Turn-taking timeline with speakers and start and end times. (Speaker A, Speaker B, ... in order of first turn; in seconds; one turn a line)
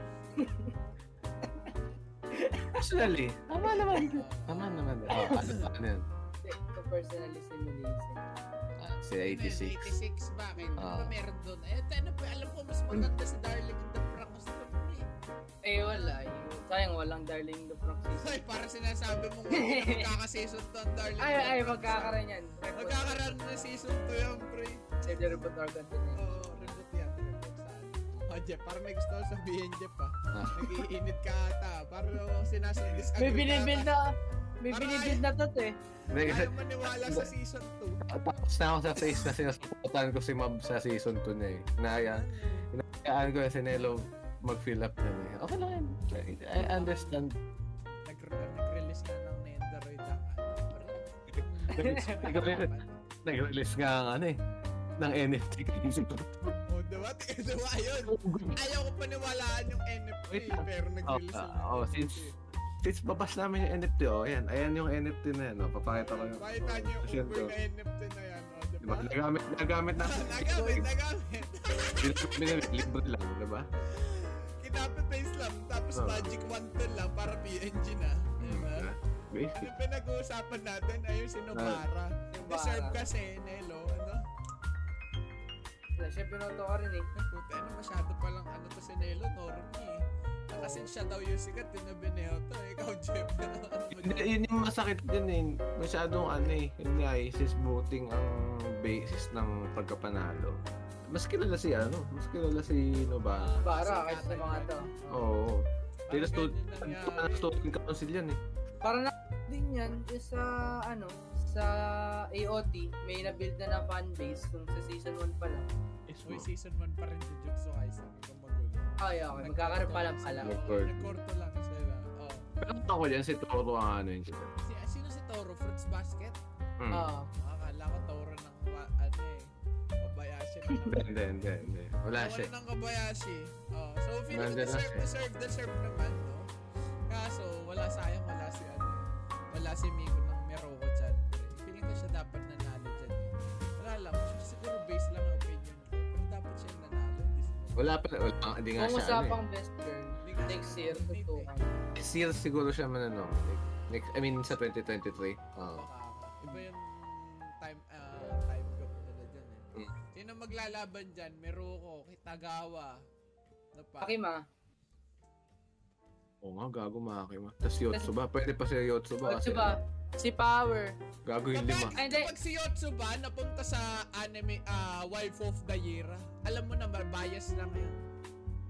Speaker A: 0.3-0.8
Speaker A: 2.3-3.0
Speaker B: 2.8-6.1
Speaker A: 3.7-4.1
Speaker C: 4.0-5.7
Speaker A: 5.1-5.4
Speaker A: 6.4-8.2
Speaker B: 8.8-9.9
Speaker C: 9.2-15.1
Speaker A: 10.6-10.9
Speaker B: 10.8-11.1
Speaker A: 15.6-18.4
Speaker C: 15.9-16.1
Speaker C: 18.2-22.2
Speaker A: 19.5-20.1
Speaker A: 21.1-23.7
Speaker C: 22.7-25.4
Speaker A: 25.0-26.8
Speaker C: 26.1-34.0
Speaker B: 30.3-30.6
Speaker A: 33.1-35.8
Speaker C: 34.7-35.2
Speaker C: 36.1-38.0
Speaker B: 36.1-37.3
Speaker B: 38.0-47.4
Speaker C: 39.0-39.3
Speaker C: 42.0-42.7
Speaker C: 46.5-47.2
Speaker C: 48.0-53.1
Speaker A: 51.7-52.2
Speaker B: 51.7-52.7
Speaker B: 53.2-54.4
Speaker B: 55.0-56.5
Speaker C: 56.7-62.4
Speaker B: 58.0-58.6
Speaker B: 60.3-62.2
Speaker B: 62.8-67.5
Speaker C: 65.8-69.2
Speaker B: 68.8-70.9
Speaker C: 70.0-72.9
Speaker B: 72.0-73.7
Speaker C: 73.8-78.9
Speaker B: 75.9-76.3
Speaker B: 78.4-79.7
Speaker C: 79.5-84.2
Speaker B: 81.5-81.8
Speaker A: 82.3-83.0
Speaker A: 86.0-87.1
Speaker C: 87.1-94.4
Speaker A: 90.5-90.9
Speaker B: 93.9-103.5
Speaker C: 103.3-105.3
Speaker A: 103.6-104.9
Speaker B: 105.1-108.4
Speaker C: 106.1-107.7
Speaker A: 108.8-115.7
Speaker B: 116.1-116.5
Speaker C: 116.2-122.5
Speaker A: 119.0-120.6
Speaker B: 120.4-121.1
Speaker B: 122.6-124.5
Speaker C: 124.6-126.4
Speaker B: 126.8-127.1
Speaker A: 126.9-127.3
Speaker C: 127.3-131.1
Speaker A: 130.7-130.9
Speaker B: 130.9-132.5
Speaker C: 132.2-136.5
Speaker B: 134.3-135.1
Speaker C: 137.1-148.1
Speaker B: 147.8-149.4
Speaker A: 148.8-151.8
Speaker C: 150.2-151.5
Speaker B: 151.9-155.9
Speaker C: 155.6-163.0
Speaker C: 163.7-164.2
Speaker A: 164.0-164.4
Speaker B: 166.4-169.8
Speaker A: 169.2-171.0
Speaker B: 171.2-172.0
Speaker C: 171.5-178.0
Speaker A: 172.0-172.3